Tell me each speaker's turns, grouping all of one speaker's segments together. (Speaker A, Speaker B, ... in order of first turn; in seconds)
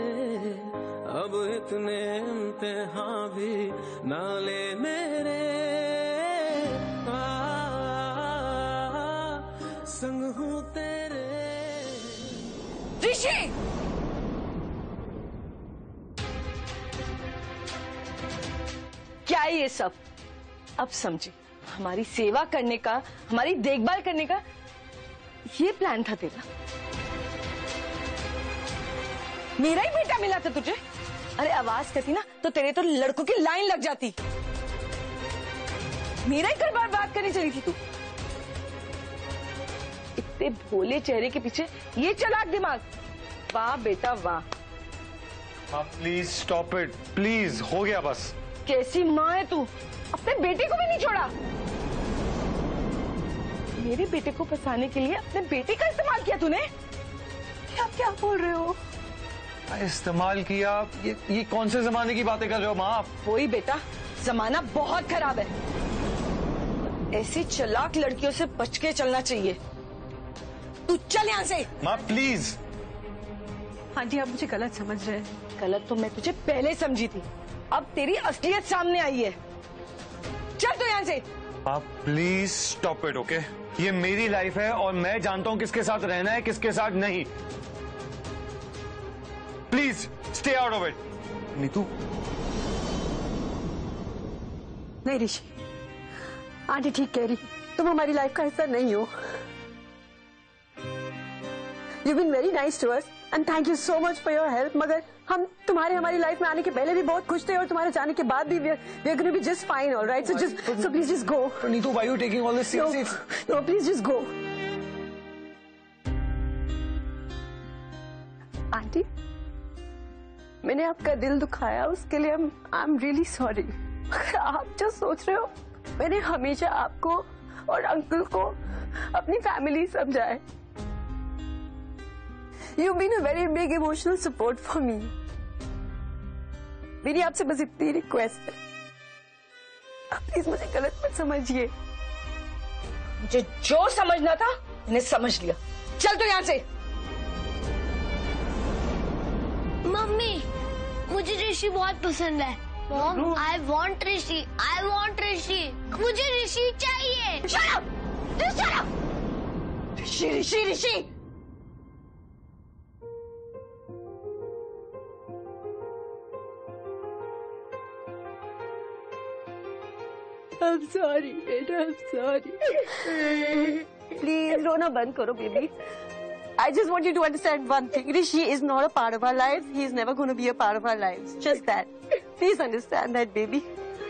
Speaker A: 1.2-3.4, 4.2-5.1
Speaker B: 13.0-13.5, 19.2-20.0, 20.8-24.4, 25.5-26.4, 29.6-30.8, 31.4-34.1, 36.2-37.8, 40.2-42.8, 43.5-44.4, 48.6-51.3, 53.8-56.7, 57.7-58.8, 63.2-65.5, 67.1-69.6, 70.8-71.7, 75.6-79.4, 80.6-81.2, 143.2-146.6, 157.5-157.8, 158.4-158.8, 160.0-161.1
Speaker C: 45.7-48.3, 59.7-63.1, 71.8-72.6, 81.6-87.3, 89.7-91.0, 91.5-91.9, 110.2-111.0, 111.6-113.2
Speaker D: 74.0-75.3, 95.0-95.5, 96.7-99.1, 102.0-111.6, 112.7-114.3, 118.7-119.0, 120.6-128.6, 129.1-130.4, 132.8-135.1, 137.0-138.6, 140.1-141.7, 170.6-172.8, 174.1-175.7, 176.6-183.6
Speaker E: 149.8-150.4, 151.1-157.4